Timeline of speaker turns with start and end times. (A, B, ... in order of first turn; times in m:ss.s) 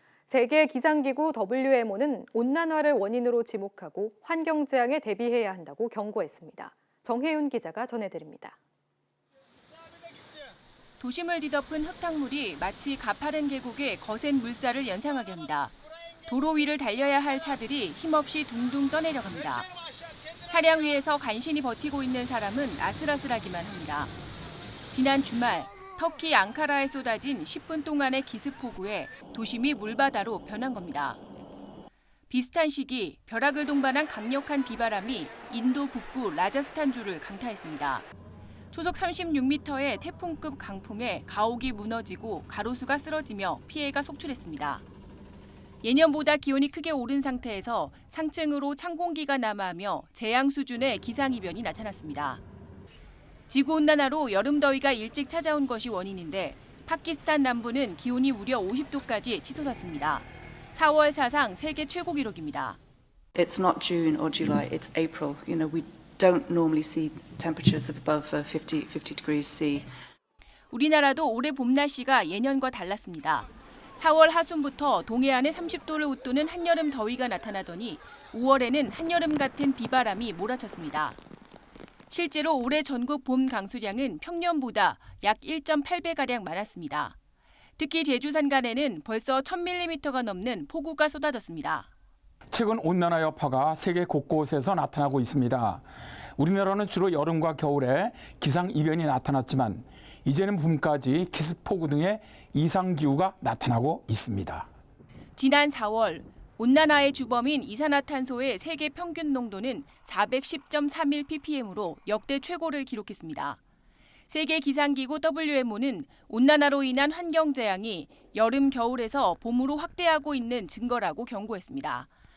0:00.3-0:08.6 A
0:11.0-0:15.7 B
0:16.3-0:19.7 B
0:20.5-0:24.1 B
0:24.9-0:31.2 B
0:32.3-0:38.0 B
0:38.7-0:44.8 B
0:45.8-0:52.4 B
0:53.5-1:02.8 B
1:03.3-1:09.9 C
1:10.7-1:21.2 B
1:22.1-1:27.2 B
1:27.8-1:31.9 B
1:32.5-1:35.8 D
1:36.4-1:44.7 D
1:45.4-1:53.6 B
1:54.3-2:02.1 B